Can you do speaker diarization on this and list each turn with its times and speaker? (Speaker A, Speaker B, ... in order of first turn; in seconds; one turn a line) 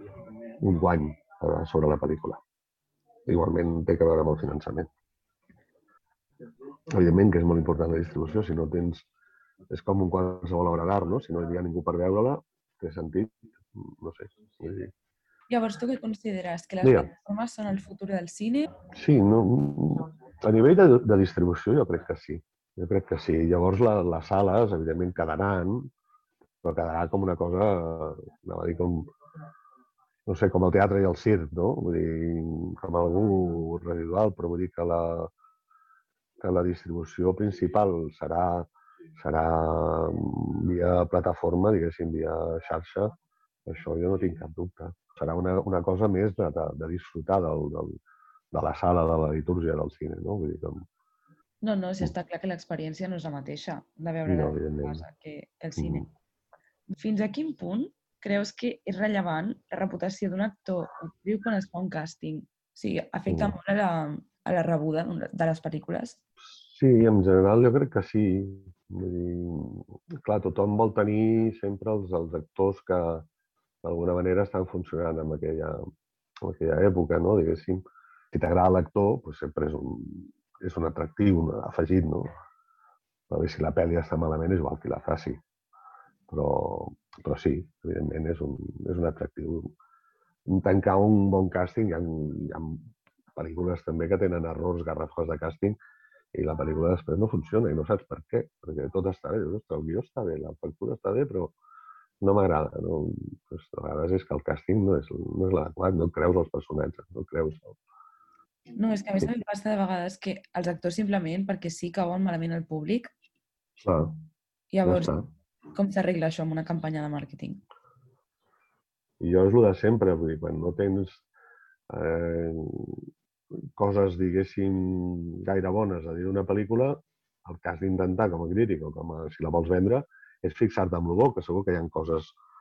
Speaker A: 0.6-2.4
Speaker A: 3.3-4.9
Speaker A: 6.9-9.0
Speaker A: 9.7-14.9
Speaker B: 15.5-18.7
Speaker A: 16.8-17.1
Speaker A: 18.9-25.9
Speaker A: 26.6-29.1
Speaker A: 30.2-35.3
Speaker A: 36.4-43.1
Speaker A: 43.6-48.0
Speaker A: 48.5-50.9
Speaker B: 51.6-56.0
Speaker A: 54.2-55.0
Speaker A: 55.8-56.0
Speaker B: 56.9-66.2
Speaker A: 63.3-63.5
Speaker A: 66.4-73.3
Speaker A: 73.8-75.8
Speaker A: 76.4-82.3
Speaker A: 83.3-85.4
Speaker A: 86.3-89.7
Speaker A: 90.5-92.8
Speaker A: 93.3-95.8
Speaker A: 96.3-101.5
Speaker A: 102.2-107.8
Speaker B: 108.8-113.1
Speaker A: 113.8-114.2
Speaker B: 114.7-115.1
Speaker A: 114.8-115.3
Speaker B: 115.7-117.6
Speaker A: 119.2-121.2
Speaker A: 121.9-123.0
Speaker A: 123.8-132.3